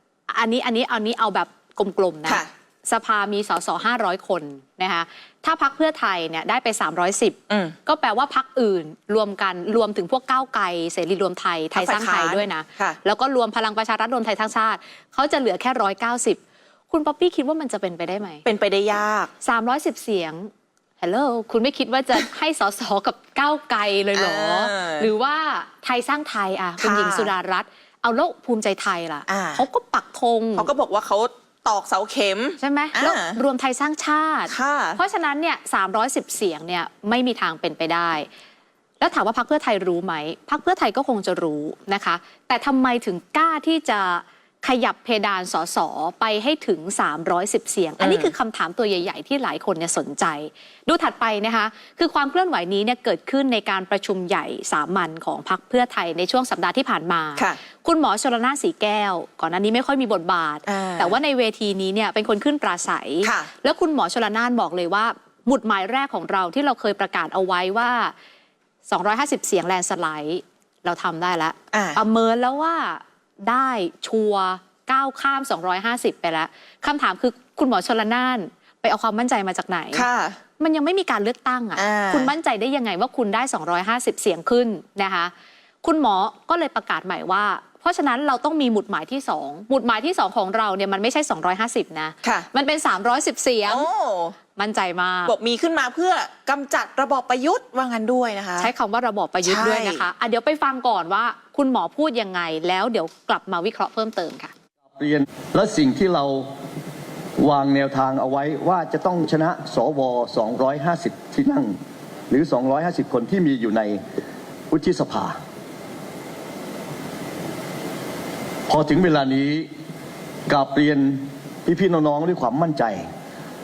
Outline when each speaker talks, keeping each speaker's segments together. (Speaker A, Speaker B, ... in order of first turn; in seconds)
Speaker A: 0.3-18.4, 19.4-30.7, 32.6-38.3, 39.0-68.1, 68.9-80.0, 80.6-85.3, 85.8-93.9, 94.5-95.3, 98.6-104.5
Speaker B: 7.5-7.8, 11.8-13.0, 18.4-19.3, 24.1-25.1, 26.8-27.3, 29.3-29.7, 30.6-33.4, 34.5-35.0, 48.0-48.3, 60.7-61.2, 63.2-63.5, 71.7-72.0, 79.9-80.4, 81.8-82.3, 92.2-92.5, 93.7-94.4, 95.2-98.7, 99.4-100.0
Speaker C: 105.0-106.5, 107.4-111.8, 112.3-114.0, 114.7-115.4, 118.7-119.7, 120.5-123.1